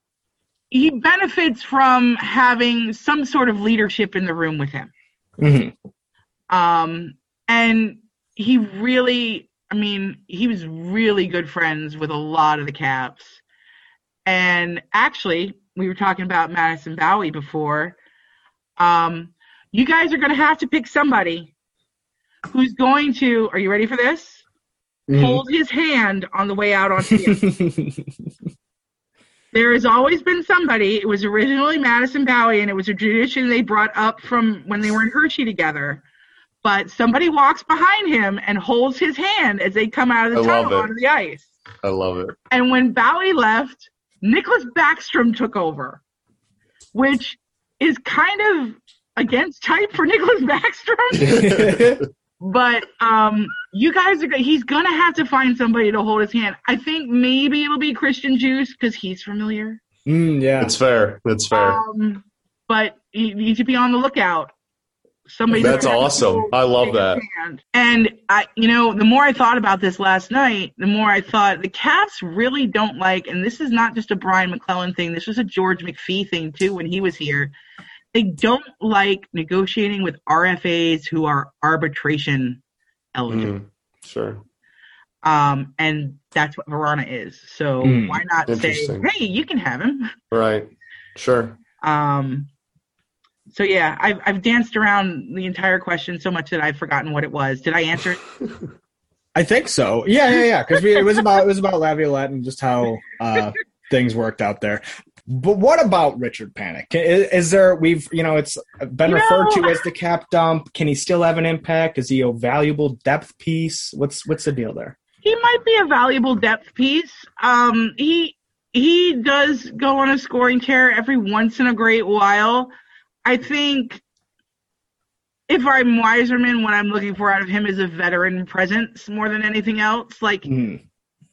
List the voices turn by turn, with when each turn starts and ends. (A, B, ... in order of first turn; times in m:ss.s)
0:00.7-0:04.9 A
0:05.4-0:05.7 B
0:06.5-0:13.4 A
0:14.3-0:18.0 A
0:18.8-0:21.5 A
0:22.5-0:24.4 A
0:25.1-0:25.4 B
0:25.1-0:27.5 A
0:27.2-0:28.1 B
0:29.5-0:36.0 A
0:36.6-0:41.5 A
0:40.3-0:40.9 C
0:41.8-0:42.4 C
0:42.5-0:46.0 A
0:46.9-0:51.5 A
0:51.2-0:52.0 C
0:51.4-0:52.0 B
0:52.4-0:59.8 A
1:00.1-1:00.7 B
1:00.6-1:01.8 C
1:01.5-1:04.5 A
1:05.3-1:17.5 A
1:05.5-1:07.2 C
1:18.1-1:22.6 A
1:23.2-1:23.6 A
1:23.3-1:24.4 C
1:25.2-1:30.2 A
1:27.8-1:28.2 B
1:28.5-1:29.1 C
1:30.3-1:31.6 C
1:31.8-1:32.5 A
1:33.5-1:38.2 A
1:39.4-1:55.0 B
1:49.0-1:49.8 A
1:55.2-2:02.7 A
2:03.2-2:04.0 A
2:05.5-2:10.5 A
2:10.5-2:10.8 B